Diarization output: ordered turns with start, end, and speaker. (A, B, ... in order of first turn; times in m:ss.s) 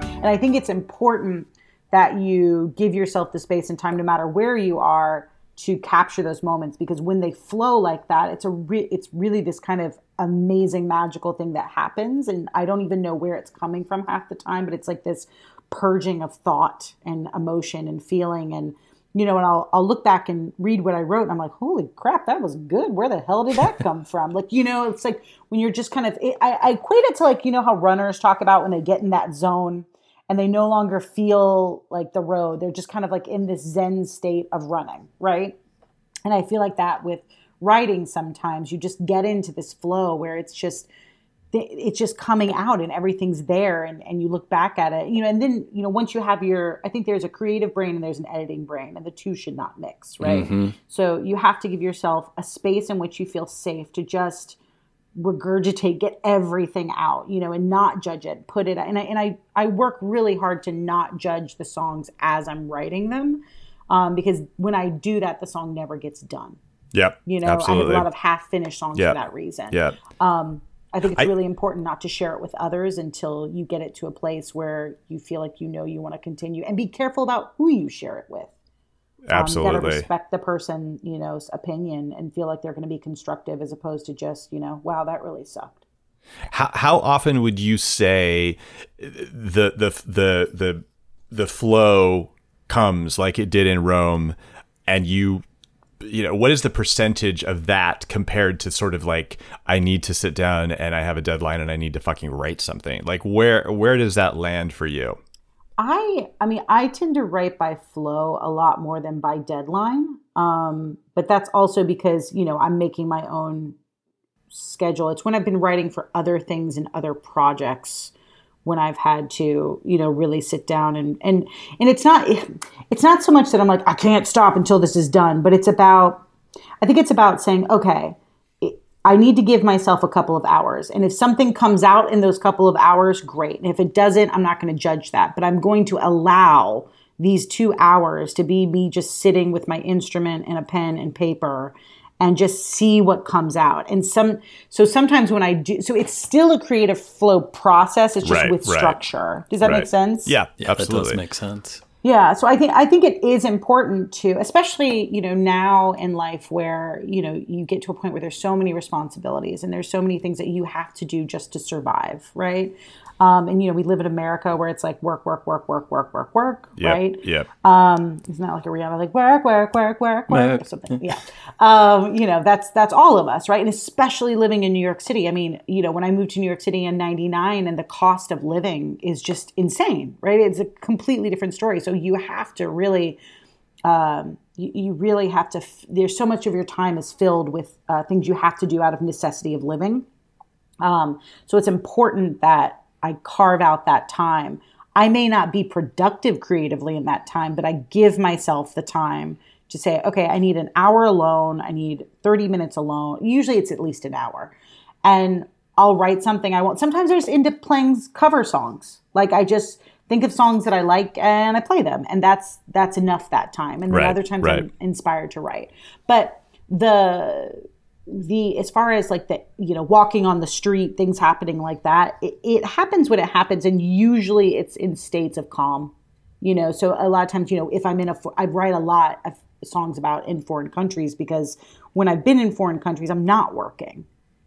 0:00.2-0:35.6 A
0:36.3-0:40.9 A
0:41.5-0:54.6 A
0:50.2-0:50.8 B
0:55.2-1:06.6 A
1:06.9-1:08.1 C
1:07.3-1:18.5 A
1:09.7-1:10.0 C
1:19.3-1:20.1 C
1:19.3-1:25.8 A
1:26.5-1:34.4 C
1:34.9-1:35.4 C
1:36.0-1:45.2 C
1:45.8-1:53.8 A
1:54.5-1:58.1 A
1:58.6-2:06.2 A
2:06.8-2:30.3 A
2:28.2-2:29.0 C
2:29.6-2:31.2 C
2:30.6-2:31.8 B
2:32.0-3:03.2 A
2:46.8-2:47.5 C
2:50.3-2:51.1 B
3:03.9-3:10.0 A
3:10.8-3:24.5 A
3:25.0-3:54.1 A
3:33.9-3:34.6 C